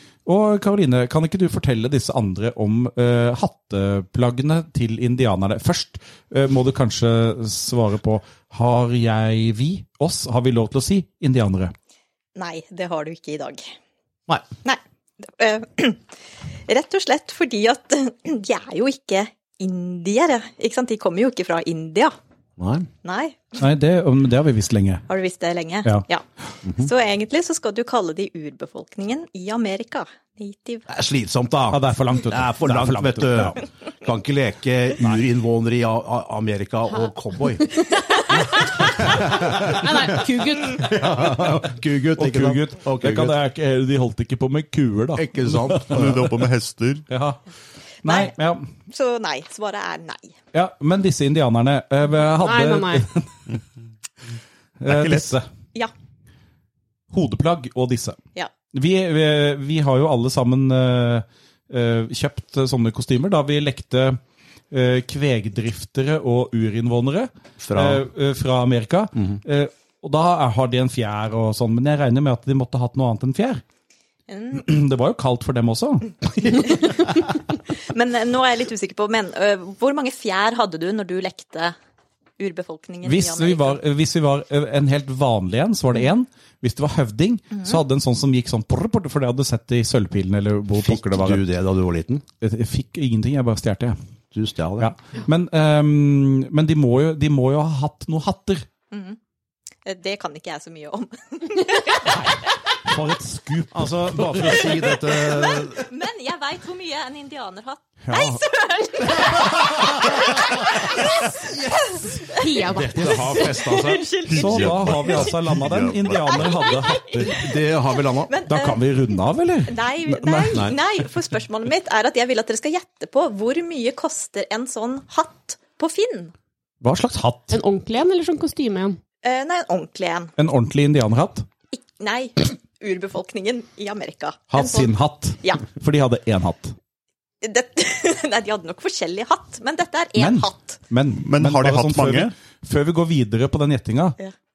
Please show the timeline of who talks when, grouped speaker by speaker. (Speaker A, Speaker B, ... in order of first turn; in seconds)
Speaker A: 0.2-11.7, 23.6-25.1, 31.7-33.6, 42.1-46.3, 47.1-47.4, 48.0-48.7, 50.5-53.5, 54.8-55.5, 57.1-58.2, 58.7-64.2, 64.7-73.6, 74.5-76.1, 83.0-91.5, 92.4-94.0, 94.8-98.7, 102.8-104.7, 108.0-108.4, 114.3-117.5, 118.5-120.8, 126.8-127.6, 130.4-131.5, 134.5-136.8, 140.2-144.2
Speaker B: 12.3-13.7, 14.6-16.0, 16.7-22.1, 23.0-23.6, 25.1-26.2, 26.8-30.9, 48.0-48.3, 48.9-50.3, 74.3-74.6, 76.4-81.7, 82.4-83.8, 87.5-87.8, 98.9-99.2, 99.8-102.3, 105.3-112.5, 113.2-115.3, 116.2-117.5, 118.1-118.9, 119.7-126.3, 129.2-130.3, 131.7-135.6, 137.4-140.8
Speaker C: 22.6-22.9, 26.6-26.9, 30.9-37.8, 38.8-43.4, 45.1-46.3, 67.6-68.0, 90.8-92.2, 94.3-94.9, 103.7-105.9, 109.2-110.6, 112.6-114.1, 117.2-118.3, 120.5-120.8
Speaker D: 38.3-40.8, 52.4-53.1, 112.3-113.5, 127.5-129.0
Speaker E: 45.9-47.1, 54.9-55.3, 114.3-116.6, 141.1-142.3